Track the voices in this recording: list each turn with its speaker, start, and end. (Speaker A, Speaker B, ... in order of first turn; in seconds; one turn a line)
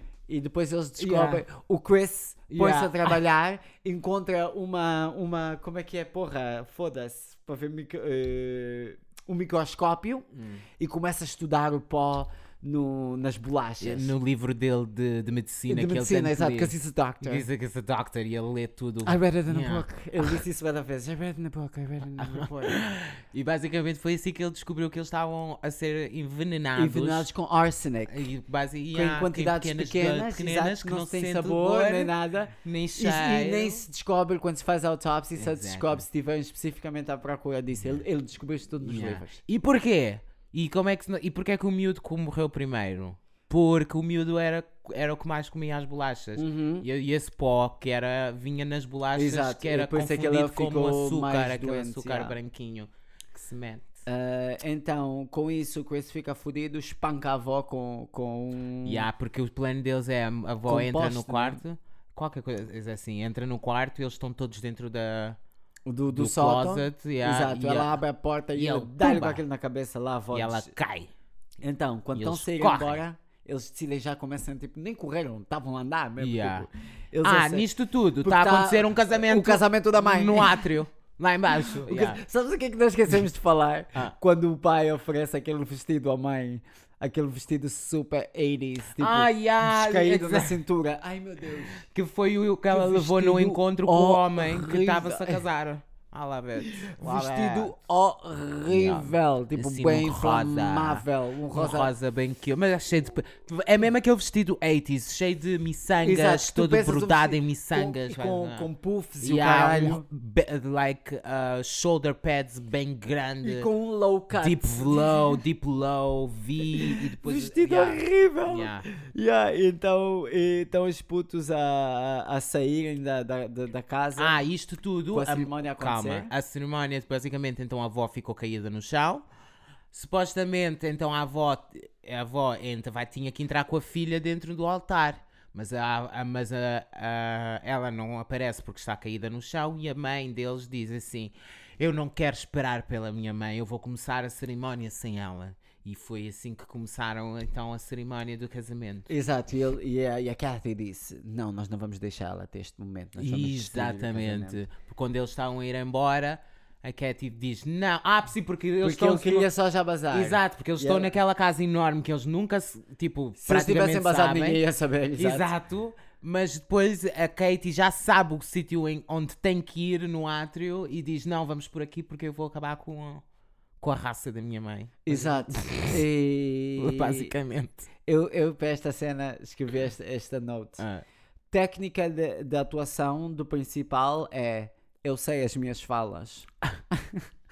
Speaker A: 0.3-10.3
Speaker B: 1.0-1.4
Speaker B: 2.5-3.2
Speaker B: 10.3-10.6
Speaker A: 10.8-14.1
Speaker B: 13.8-20.4
Speaker A: 15.7-17.5
Speaker A: 19.1-22.8
Speaker B: 22.2-27.3
Speaker A: 26.8-28.2
Speaker B: 28.1-33.8
Speaker A: 28.9-39.4
Speaker B: 35.4-36.0
Speaker B: 38.8-54.0
Speaker A: 46.4-46.9
Speaker A: 49.1-52.4
Speaker A: 54.1-59.1
Speaker B: 58.9-65.4
Speaker A: 60.7-61.6
Speaker A: 65.9-70.7
Speaker B: 66.1-68.0
Speaker B: 68.5-69.4
Speaker B: 70.3-71.1
Speaker A: 71.6-77.7
Speaker B: 72.2-73.0
Speaker B: 76.2-76.7
Speaker B: 77.2-82.2
Speaker A: 78.2-80.7
Speaker A: 81.5-91.8
Speaker B: 89.0-90.6
Speaker B: 91.8-97.7
Speaker A: 92.7-95.4
Speaker A: 96.6-101.9
Speaker B: 98.7-108.7
Speaker A: 106.0-110.0
Speaker B: 109.2-113.7
Speaker A: 113.4-115.4
Speaker B: 114.4-118.8
Speaker A: 116.6-124.4
Speaker B: 124.2-129.2
Speaker A: 125.1-126.3
Speaker B: 129.9-149.1
Speaker A: 149.1-154.6
Speaker B: 153.2-159.5
Speaker A: 158.8-161.1
Speaker B: 160.1-164.6
Speaker A: 163.4-165.5
Speaker B: 165.2-173.2
Speaker B: 173.8-176.0
Speaker A: 175.1-177.3
Speaker B: 176.8-177.9
Speaker A: 178.1-180.8
Speaker B: 180.8-181.0
Speaker A: 181.5-187.3